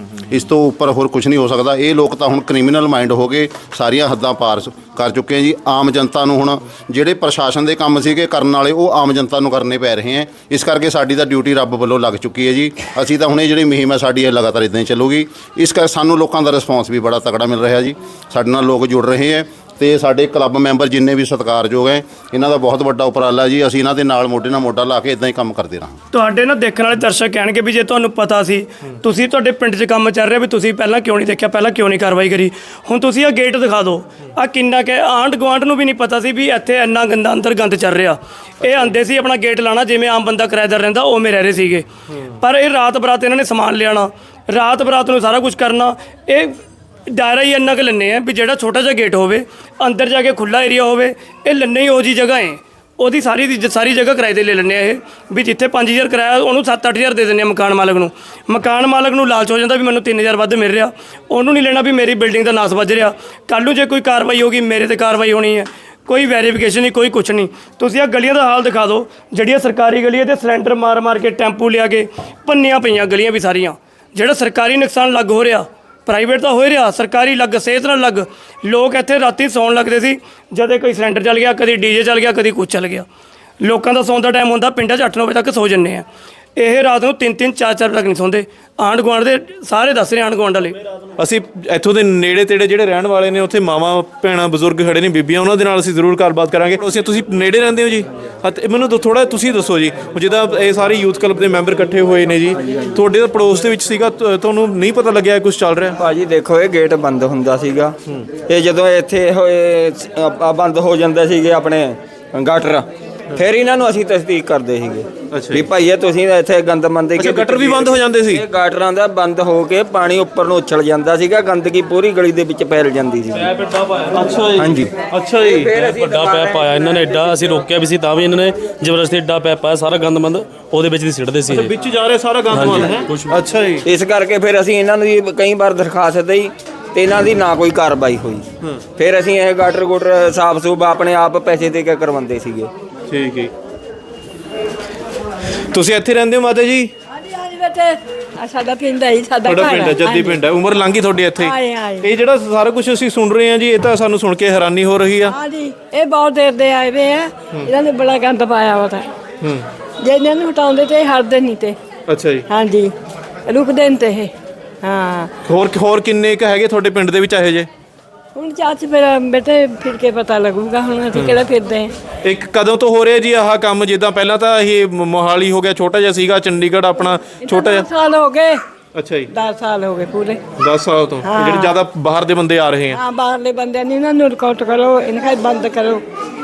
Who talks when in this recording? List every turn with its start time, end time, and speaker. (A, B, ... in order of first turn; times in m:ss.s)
0:00.2-0:26.0 A
0:26.1-0:41.9 B
0:42.4-1:23.1 B
1:23.6-1:26.1 B
1:26.6-1:30.8 B
1:31.2-1:46.0 C
1:46.0-1:48.0 D
1:48.5-2:03.5 D
1:55.3-1:55.7 C
1:57.2-1:58.4 C
2:03.3-2:04.4 E
2:04.1-2:05.7 C
2:04.6-2:04.9 D
2:05.4-2:07.1 D
2:05.8-2:11.7 E
2:11.5-2:13.8 C
2:12.5-2:13.4 E
2:13.8-2:18.4 D
2:19.0-2:22.7 D
2:23.1-2:23.5 C
2:25.7-2:26.9 C
2:27.2-2:30.4 F
2:29.4-2:35.4 C
2:31.4-2:32.1 F
2:35.3-2:39.1 F
2:39.4-2:39.7 C
2:40.0-2:41.8 F
2:42.1-2:42.5 C
2:42.5-2:42.9 F
2:43.5-2:44.3 F
2:44.8-2:45.3 F
2:45.5-2:47.7 C
2:48.4-2:51.9 F
2:52.2-2:57.9 C
2:57.4-2:58.6 F
2:59.0-2:59.3 C
2:59.3-3:00.4 F
3:00.6-3:03.0 C
3:01.2-3:01.8 F
3:02.9-3:06.0 F